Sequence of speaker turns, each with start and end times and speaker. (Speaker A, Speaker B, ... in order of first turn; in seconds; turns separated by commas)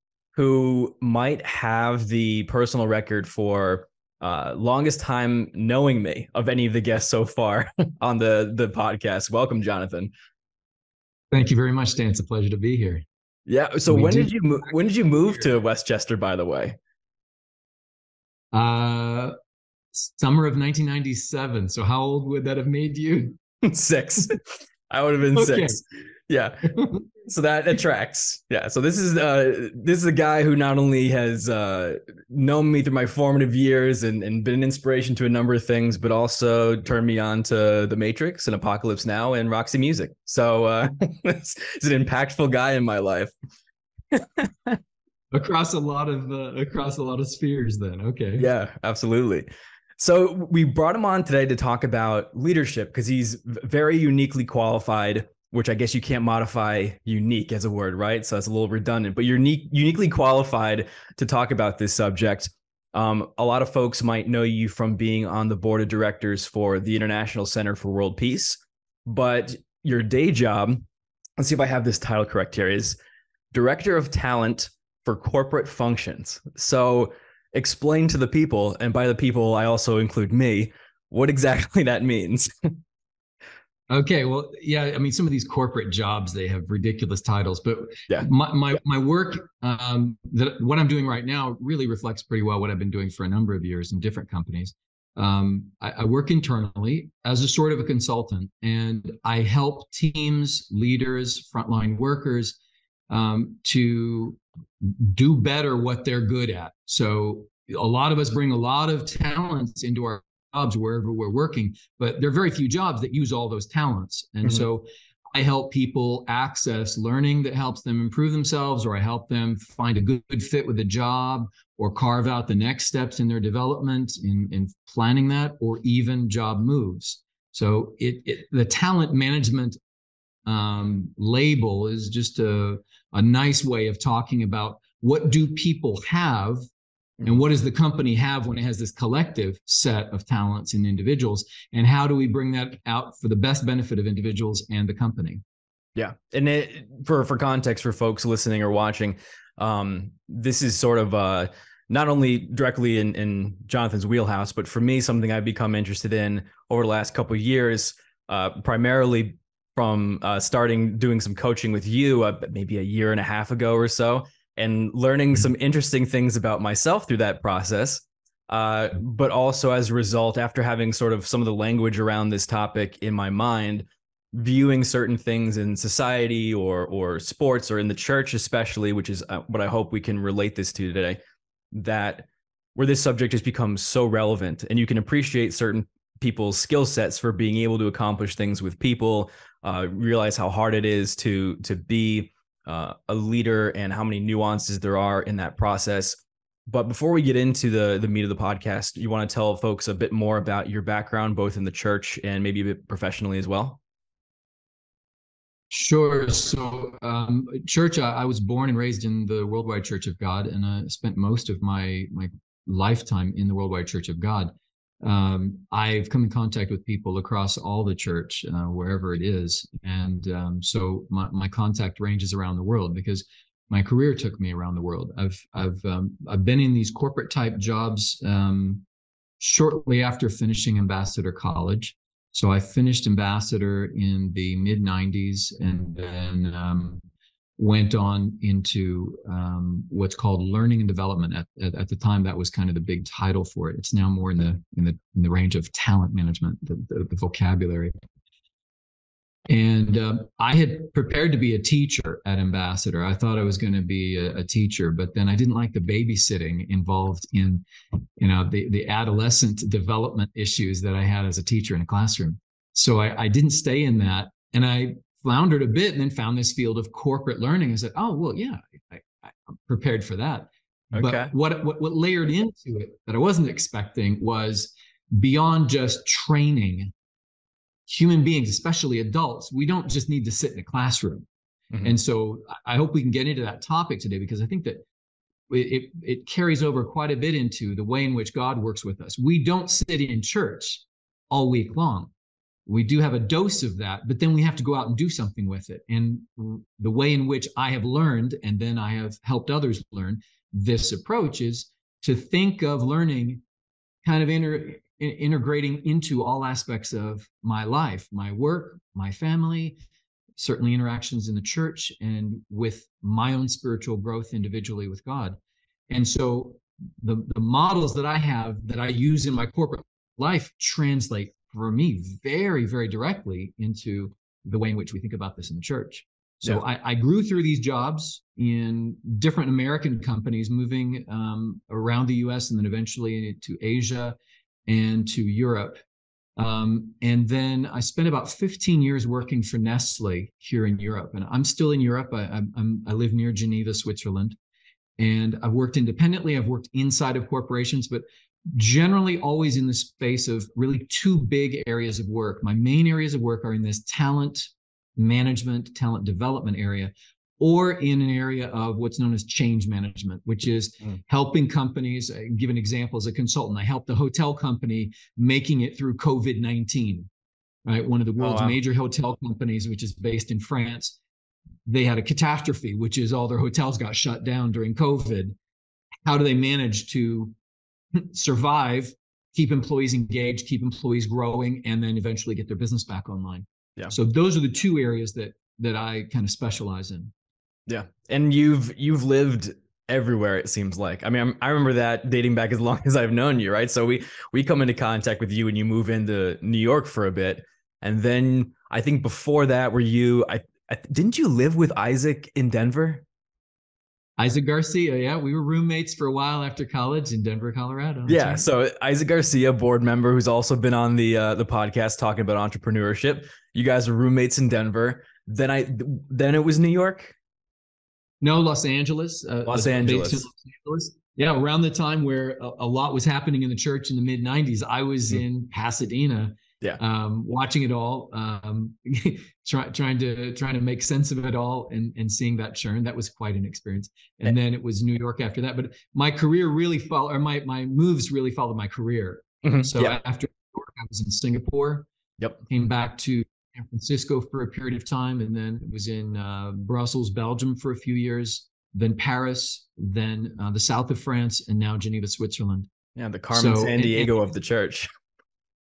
Speaker A: 0.3-10.1, Speaker B: 11.3-13.0, Speaker A: 13.5-16.8, Speaker B: 13.9-14.3, Speaker B: 18.5-19.3, Speaker B: 20.0-23.4, Speaker A: 23.6-43.3, Speaker B: 25.3-25.8, Speaker B: 26.8-27.0, Speaker A: 44.1-44.8, Speaker B: 45.3-48.5, Speaker A: 48.4-49.5, Speaker A: 50.0-70.9, Speaker A: 71.4-73.0, Speaker A: 73.5-82.8, Speaker B: 83.9-102.6, Speaker B: 103.1-129.8, Speaker B: 130.5-136.6, Speaker B: 137.2-145.4, Speaker A: 146.0-181.2, Speaker A: 181.7-203.8, Speaker B: 205.7-228.8, Speaker B: 229.4-237.0, Speaker B: 237.6-247.9, Speaker B: 249.5-257.6, Speaker B: 258.2-276.9, Speaker A: 270.9-271.3, Speaker B: 277.9-281.3, Speaker B: 281.8-284.9, Speaker B: 285.5-292.1, Speaker B: 292.7-303.4, Speaker B: 304.0-309.8, Speaker B: 310.4-315.4, Speaker B: 315.9-334.2, Speaker B: 334.7-335.8, Speaker B: 336.4-344.4, Speaker B: 345.0-367.1, Speaker B: 367.7-371.0, Speaker A: 368.2-368.6, Speaker B: 371.7-375.4, Speaker B: 376.1-377.3, Speaker B: 377.9-387.1, Speaker A: 387.7-403.0, Speaker B: 404.2-408.5, Speaker A: 408.1-417.1, Speaker B: 418.2-441.9, Speaker A: 419.5-420.3, Speaker A: 439.4-440.0, Speaker B: 442.5-452.7, Speaker A: 452.9-454.9, Speaker B: 453.3-454.1